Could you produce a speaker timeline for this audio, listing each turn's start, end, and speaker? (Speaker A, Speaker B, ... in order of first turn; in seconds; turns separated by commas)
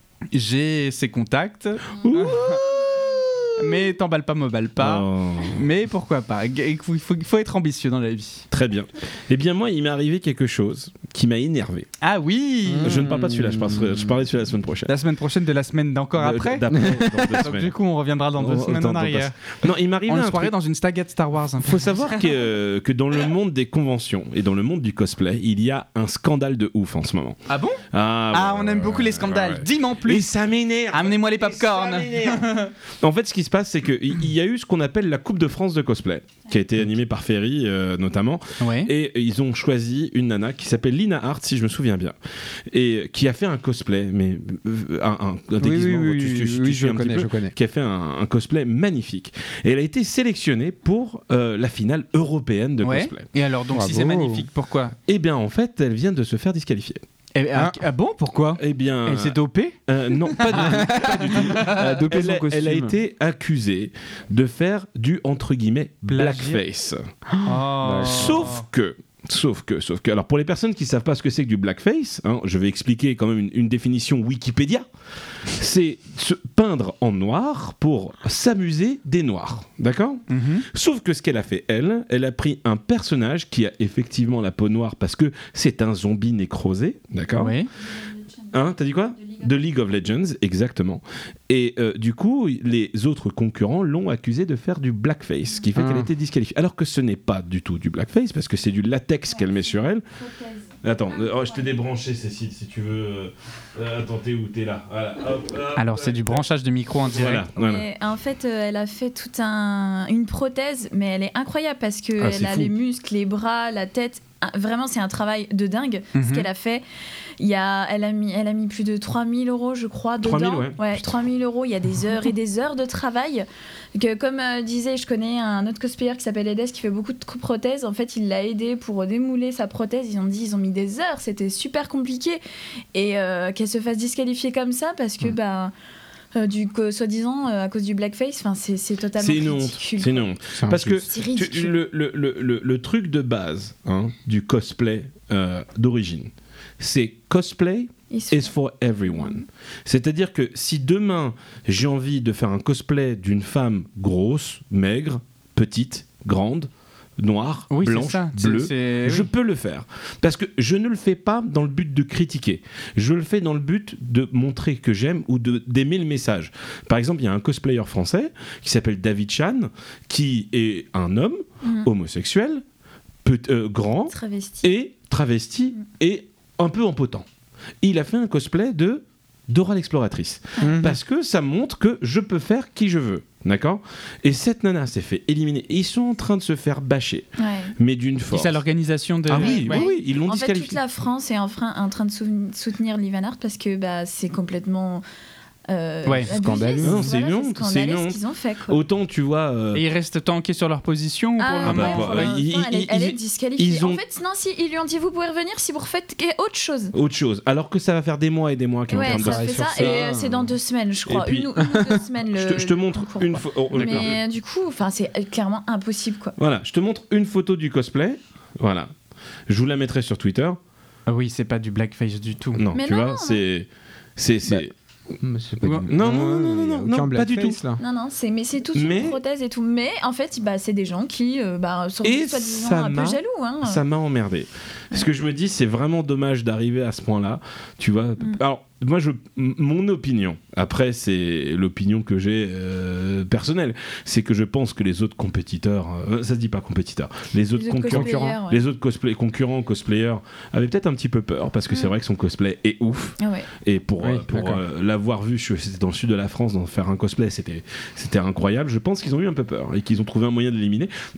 Speaker A: 0.3-2.6, Speaker B: 2.0-3.8, Speaker A: 3.6-8.4, Speaker B: 4.8-5.6, Speaker B: 8.5-11.9, Speaker A: 12.0-13.0, Speaker C: 12.7-14.1, Speaker B: 12.8-14.9, Speaker A: 14.9-16.7, Speaker B: 16.2-17.7, Speaker C: 16.7-17.4, Speaker A: 17.3-19.4, Speaker B: 18.4-20.5, Speaker A: 20.1-22.3, Speaker B: 21.6-27.4, Speaker A: 27.5-27.8, Speaker B: 27.9-42.1, Speaker A: 28.3-30.2, Speaker A: 30.9-32.7, Speaker A: 38.6-38.9, Speaker B: 42.7-53.3, Speaker C: 45.6-47.5, Speaker A: 52.8-54.9, Speaker C: 53.7-54.5, Speaker B: 55.1-57.0, Speaker A: 57.3-59.8, Speaker B: 58.6-67.0, Speaker A: 60.3-61.9, Speaker C: 60.5-63.0, Speaker A: 66.1-66.6, Speaker C: 67.3-68.4, Speaker A: 67.4-68.6, Speaker B: 67.9-74.8, Speaker B: 75.5-87.5, Speaker A: 80.3-80.7, Speaker A: 87.3-87.7, Speaker B: 88.5-100.0, Speaker C: 95.7-96.1, Speaker D: 100.3-100.6, Speaker B: 100.8-106.4, Speaker A: 105.8-107.4, Speaker B: 107.1-107.9, Speaker D: 107.5-116.8, Speaker B: 112.2-112.7, Speaker A: 116.1-116.5, Speaker D: 117.4-132.4, Speaker B: 120.2-121.0, Speaker D: 132.9-135.7, Speaker D: 136.3-140.3, Speaker B: 139.2-172.6, Speaker C: 140.6-141.0, Speaker D: 140.9-141.8, Speaker D: 148.1-148.5, Speaker D: 149.1-149.4, Speaker A: 157.7-159.3, Speaker D: 171.6-171.9, Speaker B: 173.2-177.2, Speaker D: 174.1-174.7, Speaker B: 177.8-188.6, Speaker C: 180.6-181.0, Speaker D: 187.4-187.7, Speaker A: 188.3-189.9, Speaker B: 189.3-190.8, Speaker D: 189.4-195.0, Speaker D: 195.7-198.8, Speaker C: 196.3-197.2, Speaker B: 196.8-199.8, Speaker A: 199.7-202.3, Speaker D: 201.4-206.9, Speaker B: 201.6-204.0, Speaker B: 206.9-210.2, Speaker D: 208.9-216.3, Speaker C: 209.0-210.5, Speaker B: 211.1-211.6, Speaker B: 212.3-214.2, Speaker B: 216.4-218.9, Speaker B: 219.5-220.6, Speaker A: 221.1-222.6, Speaker B: 222.6-224.7, Speaker D: 222.7-223.4, Speaker C: 225.2-227.8, Speaker A: 225.6-225.9, Speaker B: 225.9-227.6, Speaker D: 227.8-233.8, Speaker B: 228.7-229.2, Speaker B: 232.0-260.9, Speaker D: 247.5-248.6, Speaker D: 253.2-253.5, Speaker C: 254.0-254.6